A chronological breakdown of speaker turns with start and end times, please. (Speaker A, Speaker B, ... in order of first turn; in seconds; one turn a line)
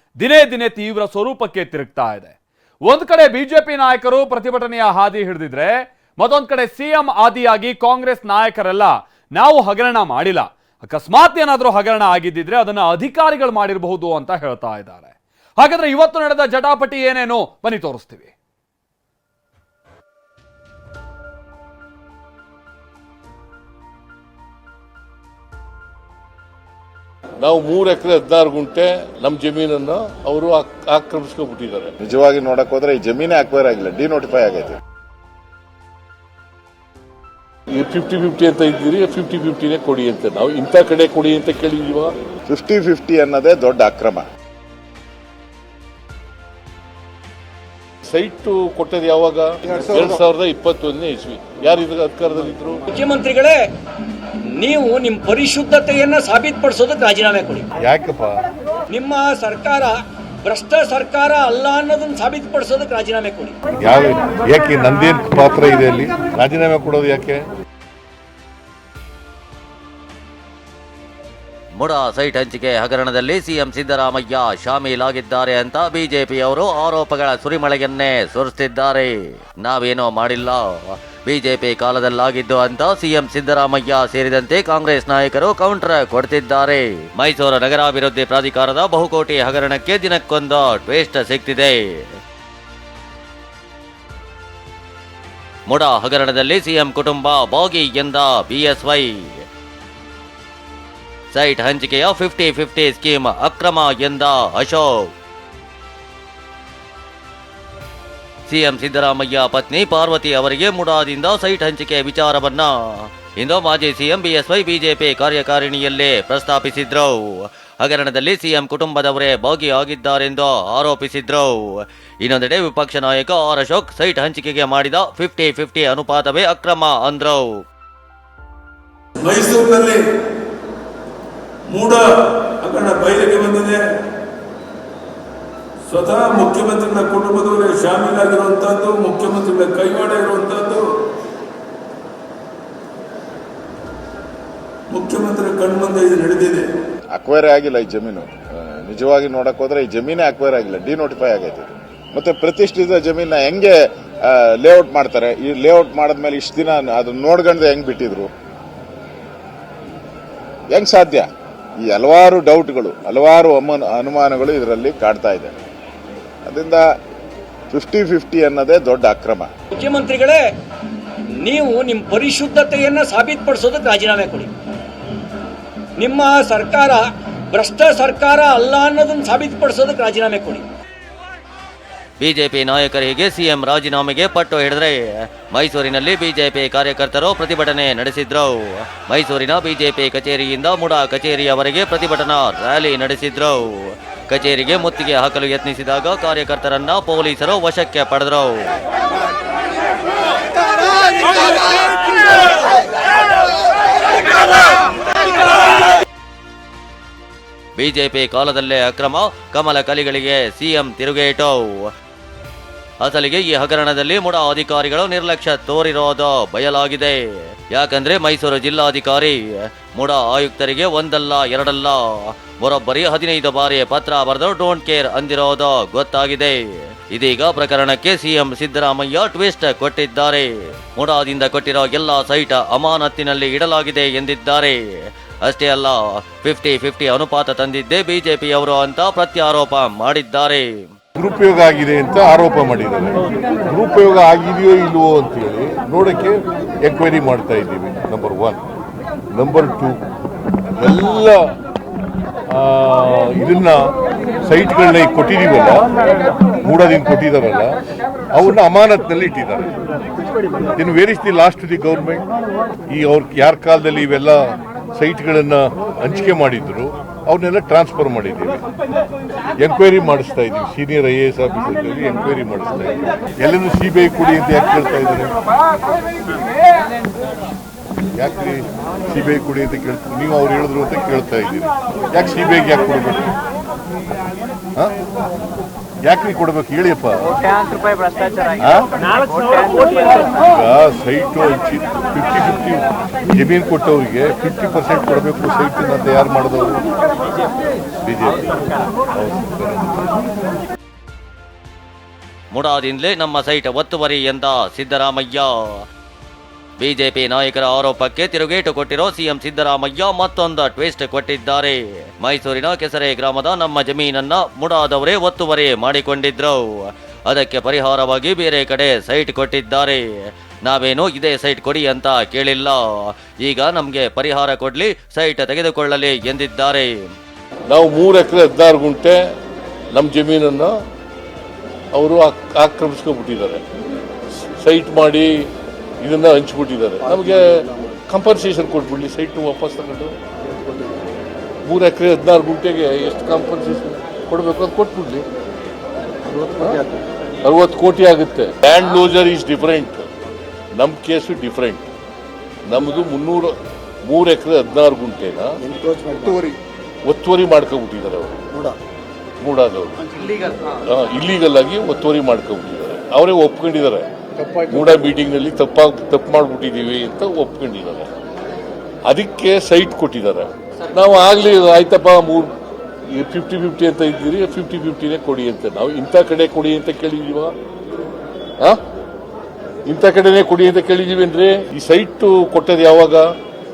Speaker A: 0.2-2.3
Speaker A: 2.9-18.3
Speaker B: 27.4-31.9
Speaker C: 32.0-34.8
Speaker B: 37.7-42.1
Speaker C: 42.5-44.2
Speaker B: 48.1-52.8
Speaker D: 52.9-53.6
Speaker D: 54.6-57.7
Speaker E: 57.8-58.4
Speaker D: 58.9-59.9
Speaker D: 60.4-63.5
Speaker E: 63.8-67.5
Speaker F: 71.8-92.0
Speaker F: 95.7-99.3
Speaker F: 101.3-105.1
Speaker F: 108.5-121.7
Speaker F: 122.2-127.6
Speaker G: 129.2-130.0
Speaker G: 131.7-133.8
Speaker G: 135.9-140.9
Speaker G: 144.9-146.7
Speaker C: 147.1-153.7
Speaker C: 154.2-158.3
Speaker C: 160.7-161.3
Speaker C: 161.8-165.5
Speaker C: 166.4-166.8
Speaker C: 167.7-169.5
Speaker D: 169.8-170.4
Speaker D: 171.4-174.5
Speaker D: 176.0-180.6
Speaker F: 182.2-198.7
Speaker F: 207.8-211.8
Speaker F: 213.0-219.4
Speaker F: 219.9-234.8
Speaker F: 235.4-240.9
Speaker E: 241.2-248.6
Speaker E: 249.3-250.0
Speaker E: 250.8-251.4
Speaker E: 252.5-253.9
Speaker E: 254.4-255.9
Speaker E: 256.6-257.8
Speaker E: 258.3-259.7
Speaker E: 260.7-262.2
Speaker E: 262.9-268.6
Speaker E: 269.6-275.3
Speaker E: 278.2-283.3
Speaker E: 286.1-287.4
Speaker E: 288.5-288.9
Speaker E: 290.3-296.8
Speaker E: 298.0-298.6
Speaker E: 299.1-300.0
Speaker F: 302.5-305.7
Speaker F: 306.8-316.8
Speaker F: 317.3-320.0
Speaker F: 320.6-327.1
Speaker B: 327.7-329.2
Speaker B: 329.9-330.7
Speaker B: 331.9-333.6
Speaker B: 334.6-335.5
Speaker B: 336.0-340.1
Speaker B: 341.6-345.2
Speaker B: 346.4-346.8
Speaker B: 347.4-350.1
Speaker B: 350.8-351.9
Speaker B: 352.7-353.5
Speaker B: 354.1-355.6
Speaker B: 357.0-358.4
Speaker B: 359.4-360.1
Speaker B: 360.6-364.1
Speaker B: 364.6-368.1
Speaker B: 369.1-372.5
Speaker B: 373.1-377.6
Speaker B: 379.9-383.3